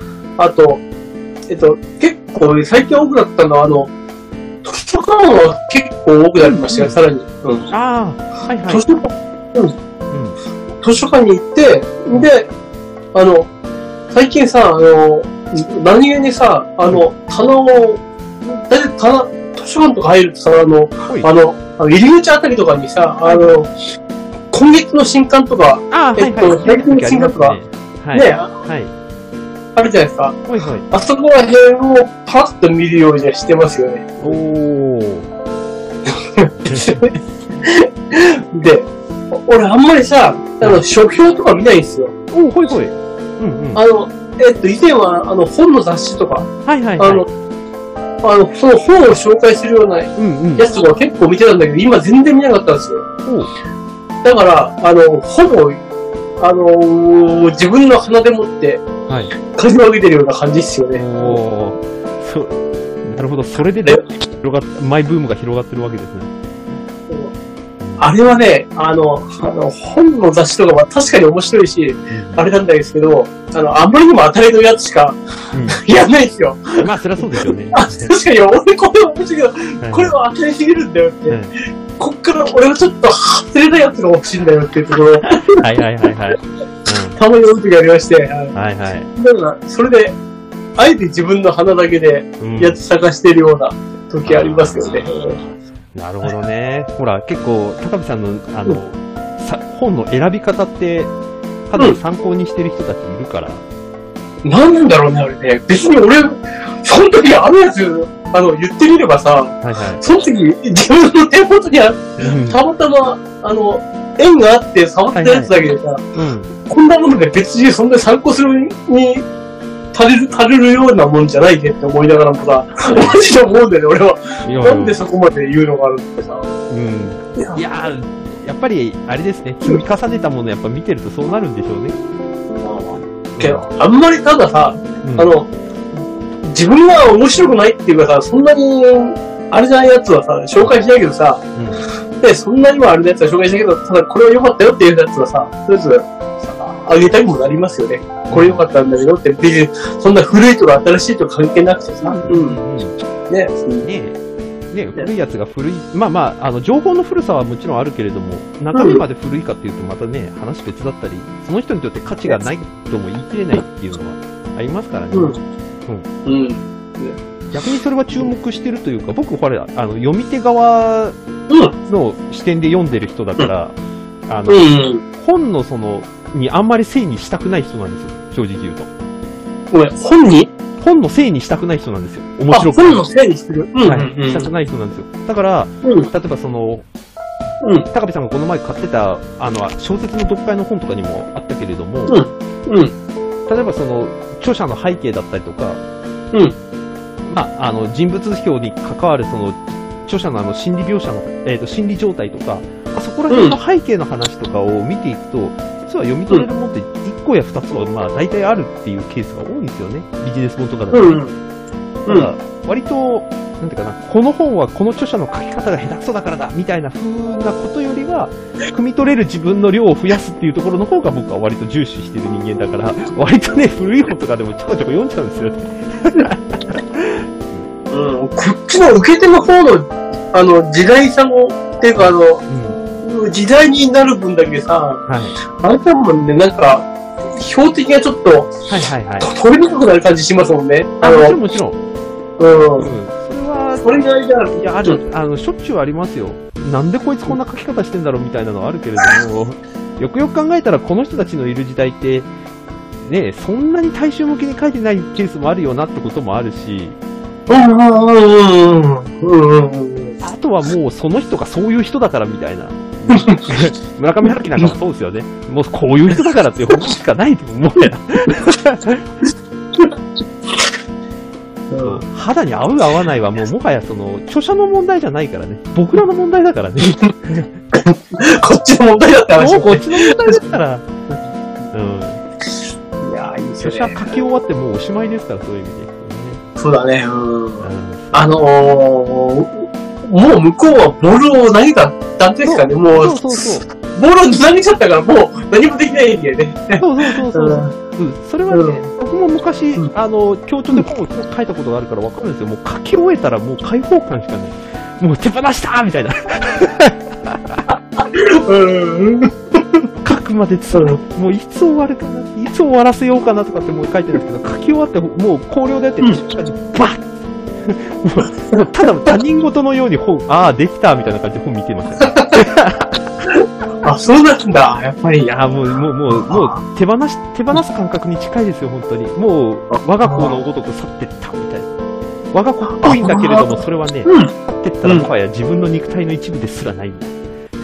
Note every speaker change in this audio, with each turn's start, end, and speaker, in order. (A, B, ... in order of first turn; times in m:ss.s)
0:00.4-0:00.8 A
0:01.5-0:03.9 A
0:04.6-0:07.7 A
0:06.4-0:06.9 B
0:07.7-0:08.8 B
0:08.7-0:09.7 A
0:10.1-0:10.4 B
0:10.8-0:12.5 A
0:13.1-0:13.5 A
0:14.1-0:23.7 A
0:23.2-0:23.5 B
0:24.5-0:27.6 A
0:25.9-0:28.9 B
0:28.1-0:28.5 A
0:29.7-0:34.4 A
0:30.5-0:30.9 B
0:34.2-0:35.3 B
0:36.0-0:42.1 A
0:36.6-0:37.0 B
0:42.3-0:43.8 B
0:43.7-0:47.2 A
0:46.6-0:47.2 B
0:48.2-0:53.0 A
0:50.2-0:50.7 B
0:53.2-0:53.5 B
0:54.2-0:55.8 A
0:56.4-0:58.8 A
0:59.1-0:59.3 B
0:59.5-1:01.4 A
1:00.9-1:06.3 B
1:07.8-1:08.1 B
1:08.0-1:15.2 A
1:12.1-1:12.4 B
1:15.5-1:15.8 B
1:15.7-1:16.8 A
1:16.8-1:18.1 B
1:17.4-1:21.4 A
1:19.8-1:20.1 B
1:21.3-1:21.6 B
1:22.0-1:25.6 A
1:25.3-1:27.2 B
1:27.2-1:28.5 A
1:28.5-1:29.1 B
1:29.2-1:30.2 A
1:30.8-1:35.4 A
1:32.4-1:32.8 B
1:34.2-1:41.1 B
1:41.7-1:43.6 B
1:44.4-1:56.0 A
1:49.6-1:50.0 B
1:52.2-1:52.6 B
1:55.1-1:55.5 B
1:56.1-1:56.5 B
1:56.6-1:59.2 A
1:59.9-2:06.5 A
2:02.9-2:03.2 B
2:04.4-2:05.0 B
2:06.7-2:12.0 B
2:07.4-2:07.6 A
2:12.6-2:15.5 A
2:13.0-2:13.7 B
2:15.0-2:15.3 B
2:16.4-2:21.4 A
2:21.5-2:21.9 B
2:22.2-2:32.6 A
2:28.3-2:28.6 B
2:32.0-2:33.0 B
2:33.3-2:33.9 A
2:33.8-2:34.2 B
2:34.7-2:46.1 B
2:38.7-2:39.0 A
2:45.1-2:45.4 A
2:46.2-2:47.2 A
2:47.5-2:51.2 B
2:51.5-2:51.7 A
2:51.8-2:53.8 B
2:54.3-2:58.9 B
2:54.5-2:55.0 A
2:59.7-3:00.5 A
3:00.8-3:03.0 B
3:02.5-3:04.5 A
3:03.8-3:06.8 B
3:05.8-3:06.1 A
3:07.6-3:07.9 A
3:07.9-3:12.2 B
3:12.1-3:12.9 A
3:13.5-3:15.8 B
3:17.2-3:31.2 B
3:23.3-3:23.6 A
3:30.9-3:31.4 A
3:32.0-3:47.7 B
3:32.1-3:32.3 A
3:47.9-3:52.4 A
3:51.9-3:52.8 B
3:53.0-3:55.0 A
3:55.1-3:55.4 B
3:55.6-3:58.6 A
3:58.7-3:59.3 B
3:59.2-4:01.4 A
4:01.0-4:01.8 B
4:02.4-4:02.9 A
4:02.8-4:12.3 B
4:03.8-4:05.0 A
4:13.0-4:17.0 B
4:17.5-4:20.2 A
4:20.2-4:29.1 B
4:23.1-4:23.4 A
4:31.7-4:32.0 A
4:31.8-4:37.5 B
4:36.8-4:37.1 A
4:37.7-4:40.5 A
4:39.4-4:40.9 B
4:41.7-4:42.2 B
4:43.0-4:44.1 A
4:43.6-4:46.4 B
4:46.6-4:57.7 A
4:47.6-4:48.3 B
4:52.4-4:53.7 B
4:56.8-5:07.6 B
4:58.5-4:58.9 A
5:08.0-5:09.8 A
5:10.0-5:17.0 B
5:10.7-5:11.0 A
5:17.6-5:23.0 B
5:22.0-5:22.3 A
5:23.3-5:25.3 A
5:25.2-5:31.7 B
5:26.1-5:26.6 A
5:29.7-5:30.4 A
5:32.3-5:37.1 B
5:32.7-5:34.3 A